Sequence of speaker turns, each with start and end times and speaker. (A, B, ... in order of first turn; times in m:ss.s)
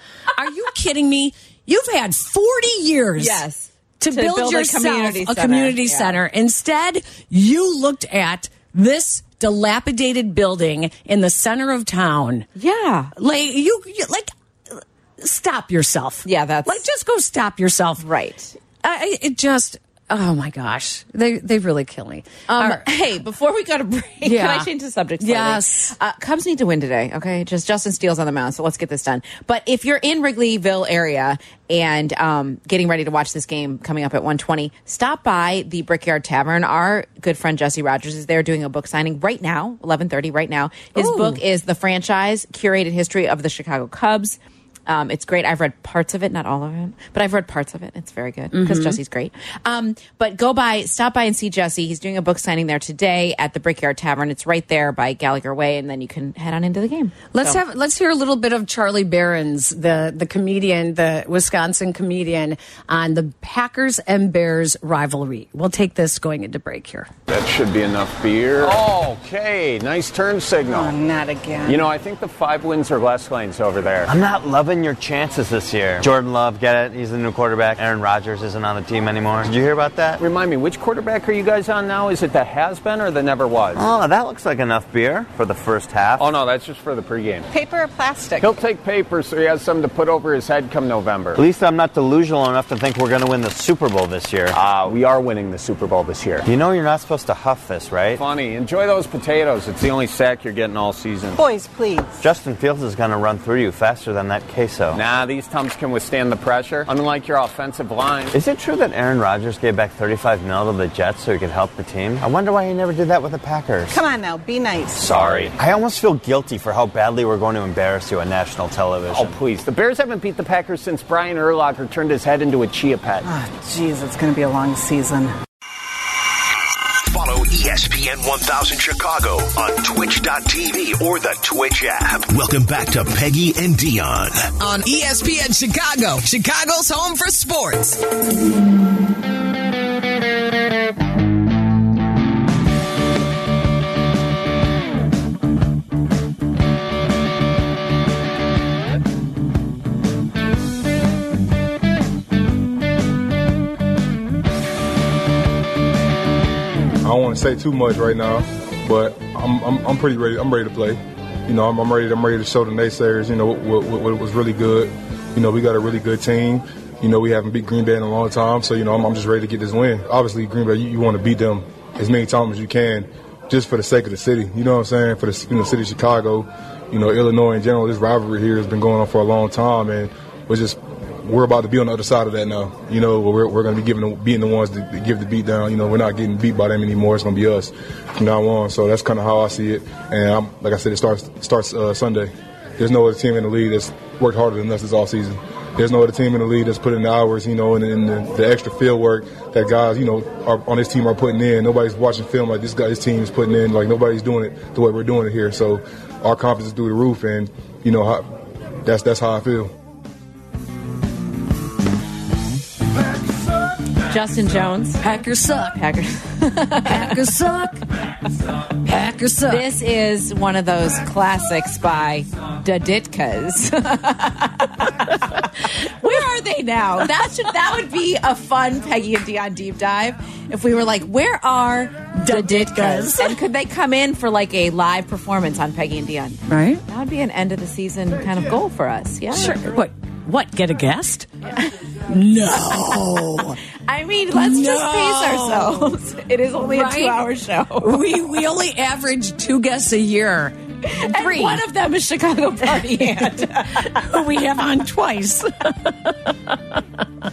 0:00.3-0:03.4 A
0:03.2-0:06.2 B
0:04.0-0:12.5 A
0:12.6-0:13.1 B
0:13.2-0:18.0 A
0:16.2-0:16.8 B
0:18.0-0:18.6 B
0:18.8-0:22.8 A
0:22.5-0:57.6 B
0:24.2-0:24.7 A
0:25.2-0:25.9 A
0:40.9-0:41.4 A
0:48.5-0:49.0 A
0:57.3-1:07.1 A
1:07.3-1:11.0 C
1:10.7-1:11.9 D
1:11.6-1:14.1 C
1:14.0-1:20.2 E
1:20.2-1:23.8 C
1:23.7-1:26.3 E
1:26.2-1:27.5 C
1:27.5-1:28.6 D
1:28.4-1:31.4 C
1:31.3-1:35.0 E
1:34.5-1:36.5 C
1:36.4-1:38.2 E
1:38.2-1:41.4 C
1:41.3-1:42.2 D
1:42.2-1:45.0 E
1:44.9-1:48.3 C
1:48.3-1:54.0 E
1:53.9-1:55.4 D
1:55.0-1:55.5 C
1:55.0-1:59.4 E
1:59.1-2:03.2 C
2:03.2-2:05.3 D
2:07.0-2:14.5 F
2:14.6-2:18.0 G
2:37.0-3:28.2 H
3:28.8-3:29.7 H
3:34.1-3:35.0 B
3:35.0-3:35.8 A
3:35.7-3:37.2 B
3:36.8-3:37.8 A
3:38.8-3:39.6 A
3:39.5-3:59.8 B
3:52.2-3:53.4 A
3:56.5-3:56.8 A
3:59.3-4:01.3 A
4:02.1-4:03.6 A
4:02.8-4:08.1 B
4:04.3-4:05.9 A
4:06.6-4:07.2 A
4:07.8-4:11.6 A
4:10.8-4:14.2 B
4:13.6-4:16.8 A